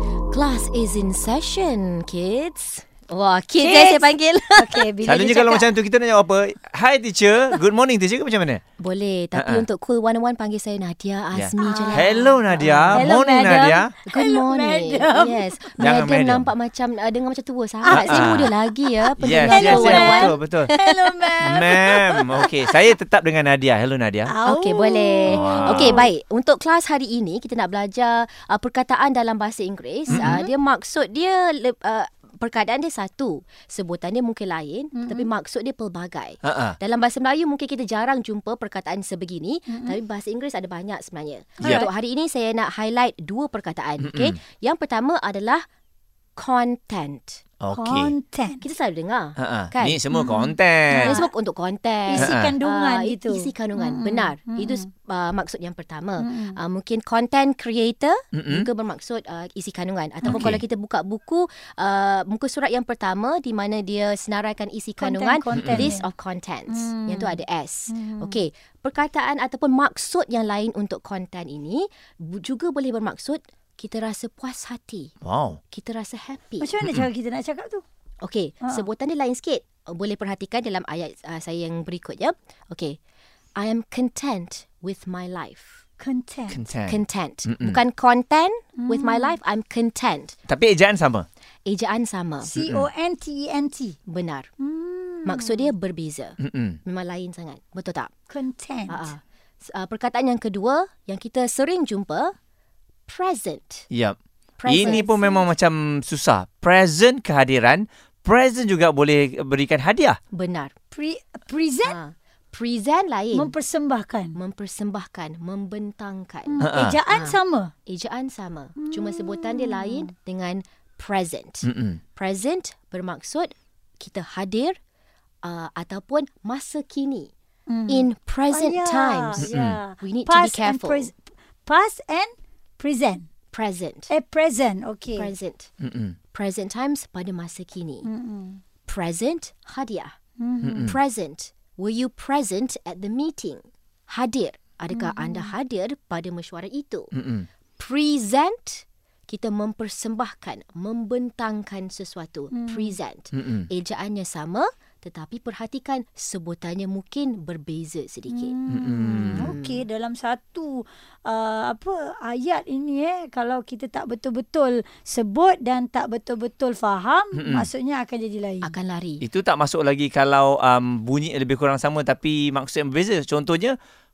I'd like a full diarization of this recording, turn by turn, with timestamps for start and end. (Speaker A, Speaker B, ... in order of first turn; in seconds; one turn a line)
Speaker A: 0.3-4.9
Speaker B: 3.6-5.7
Speaker C: 5.0-8.6
Speaker A: 8.8-21.5
Speaker C: 9.3-9.6
Speaker C: 11.3-13.9
Speaker B: 11.6-12.4
Speaker B: 12.9-15.9
Speaker C: 15.8-16.5
Speaker B: 17.8-22.8
Speaker C: 17.9-18.5
Speaker C: 19.2-20.7
Speaker C: 21.4-24.3
Speaker B: 24.3-26.0
Speaker A: 24.4-45.6
Speaker C: 25.3-26.1
Speaker C: 30.1-30.4
Speaker B: 30.2-30.5
Speaker B: 34.9-35.3
Speaker C: 36.4-36.8
Speaker B: 39.7-40.0
Speaker B: 41.6-41.9
Speaker C: 44.0-44.4
Speaker A: 46.4-47.4
Speaker C: 47.6-48.1
Speaker B: 47.7-48.6
Speaker A: 48.6-50.0
Speaker C: 49.4-51.2
Speaker B: 50.1-51.3
Speaker A: 50.9-75.1
Speaker B: 52.1-54.8
Speaker C: 52.1-52.5
Speaker B: 56.2-56.6
Speaker C: 58.3-58.7
Speaker B: 60.2-60.5
Speaker C: 60.2-60.6
Speaker B: 65.0-66.1
Speaker C: 65.5-65.9
Speaker B: 66.7-67.4
Speaker B: 67.9-68.4
Speaker C: 75.2-75.6
Speaker A: 75.7-76.7
Speaker B: 76.6-77.8
Speaker A: 78.2-83.0
Speaker A: 83.6-85.8
Speaker B: 86.0-86.6
Speaker C: 86.5-87.8
Speaker A: 86.9-90.3
Speaker B: 88.8-89.3
Speaker C: 90.5-91.2
Speaker A: 91.7-92.5
Speaker B: 92.4-94.0
Speaker C: 92.6-92.9
Speaker A: 94.1-94.5
Speaker B: 94.6-95.7
Speaker A: 95.2-98.1
Speaker C: 96.4-96.8
Speaker B: 98.3-99.1
Speaker A: 98.9-102.3
Speaker A: 103.1-103.8
Speaker C: 103.9-110.2
Speaker A: 104.6-105.4
Speaker B: 104.8-105.1
Speaker A: 110.3-110.7
Speaker B: 110.9-112.0
Speaker A: 111.8-113.5
Speaker B: 113.3-114.3
Speaker A: 114.3-124.8
Speaker B: 116.5-117.7
Speaker C: 116.6-117.0
Speaker B: 118.8-120.1
Speaker C: 121.6-122.0
Speaker A: 125.4-127.3
Speaker B: 127.7-133.3
Speaker A: 127.9-131.1
Speaker C: 129.4-129.8
Speaker A: 133.5-134.1
Speaker B: 134.1-135.3
Speaker A: 135.1-135.7
Speaker C: 135.8-136.2
Speaker A: 136.3-138.1
Speaker B: 138.0-138.6
Speaker A: 138.8-140.1
Speaker B: 140.4-140.9
Speaker C: 140.6-141.0
Speaker A: 140.8-147.1
Speaker B: 144.9-145.5
Speaker C: 147.1-147.5
Speaker A: 147.8-158.6
Speaker B: 152.5-152.9
Speaker C: 153.3-153.7
Speaker B: 158.3-168.7
Speaker C: 158.7-159.5
Speaker A: 159.4-159.8
Speaker C: 167.3-167.7
Speaker A: 168.6-169.2
Speaker C: 169.2-173.8